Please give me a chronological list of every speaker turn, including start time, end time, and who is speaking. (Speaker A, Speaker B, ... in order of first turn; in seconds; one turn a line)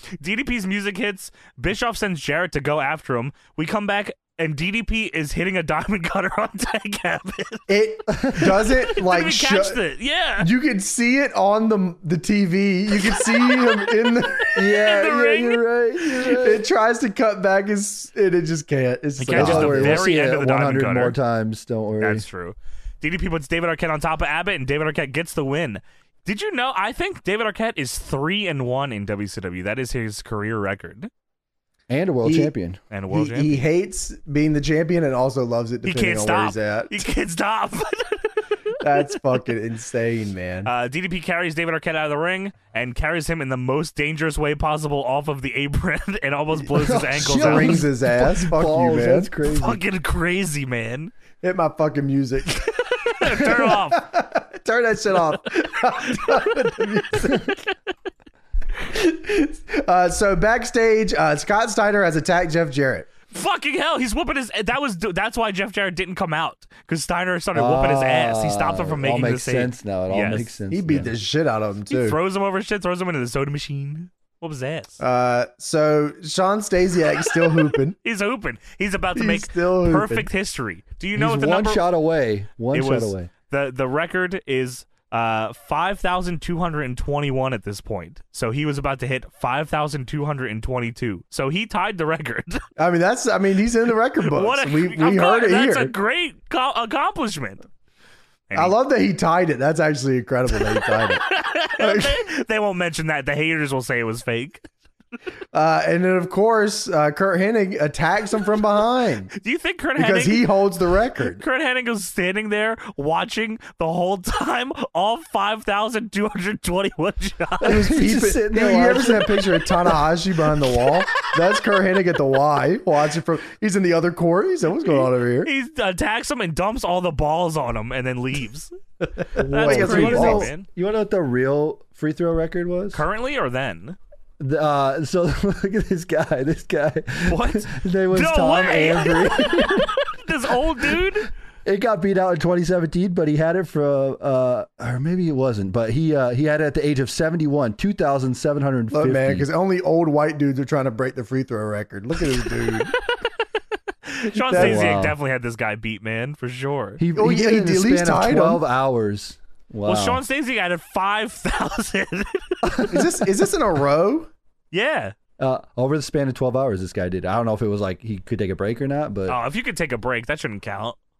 Speaker A: 0.2-7.7
Speaker B: 7.7-9.8
Speaker C: 8.1-8.5
Speaker A: 8.6-10.5
Speaker B: 10.4-14.7
Speaker A: 13.0-13.7
Speaker A: 14.5-16.4
Speaker C: 14.6-16.6
Speaker B: 16.4-20.1
Speaker A: 19.2-21.1
Speaker C: 19.3-22.2
Speaker A: 22.0-31.1
Speaker C: 31.9-32.8
Speaker B: 32.2-32.5
Speaker A: 32.9-33.6
Speaker B: 33.1-37.0
Speaker A: 35.9-38.8
Speaker B: 38.8-40.7
Speaker A: 40.6-47.8
Speaker C: 46.7-49.8
Speaker B: 47.1-49.3
Speaker A: 49.5-51.1
Speaker B: 51.4-57.6
Speaker A: 52.6-54.0
Speaker A: 55.9-56.4
Speaker B: 58.8-63.1
Speaker A: 63.3-70.5
Speaker C: 67.5-71.1
Speaker B: 70.7-72.2
Speaker A: 71.9-75.0
Speaker B: 75.0-78.0
Speaker A: 78.0-81.8
Speaker B: 79.1-80.3
Speaker C: 81.1-83.3
Speaker A: 82.7-92.6
Speaker B: 92.8-95.9
Speaker A: 94.2-97.6
Speaker A: 98.5-98.7
Speaker B: 98.5-101.2
Speaker A: 100.7-104.6
Speaker B: 101.8-102.2
Speaker B: 105.5-109.3
Speaker A: 109.4-110.5
Speaker B: 110.0-111.4
Speaker A: 111.4-117.9
Speaker C: 117.6-119.9
Speaker B: 117.6-125.5
Speaker A: 124.9-128.7
Speaker B: 129.0-130.5
Speaker C: 129.4-133.0
Speaker A: 129.4-130.7
Speaker A: 132.9-134.0
Speaker C: 134.4-139.9
Speaker A: 137.3-141.3
Speaker C: 141.6-149.5
Speaker B: 148.9-152.9
Speaker A: 152.4-153.0
Speaker A: 154.0-157.0
Speaker B: 154.3-154.9
Speaker C: 154.5-155.2
Speaker C: 157.0-160.2
Speaker B: 157.1-158.6
Speaker A: 159.8-162.9
Speaker C: 162.7-163.1
Speaker B: 162.9-164.3
Speaker A: 164.7-165.1
Speaker C: 165.4-169.4
Speaker A: 169.3-171.0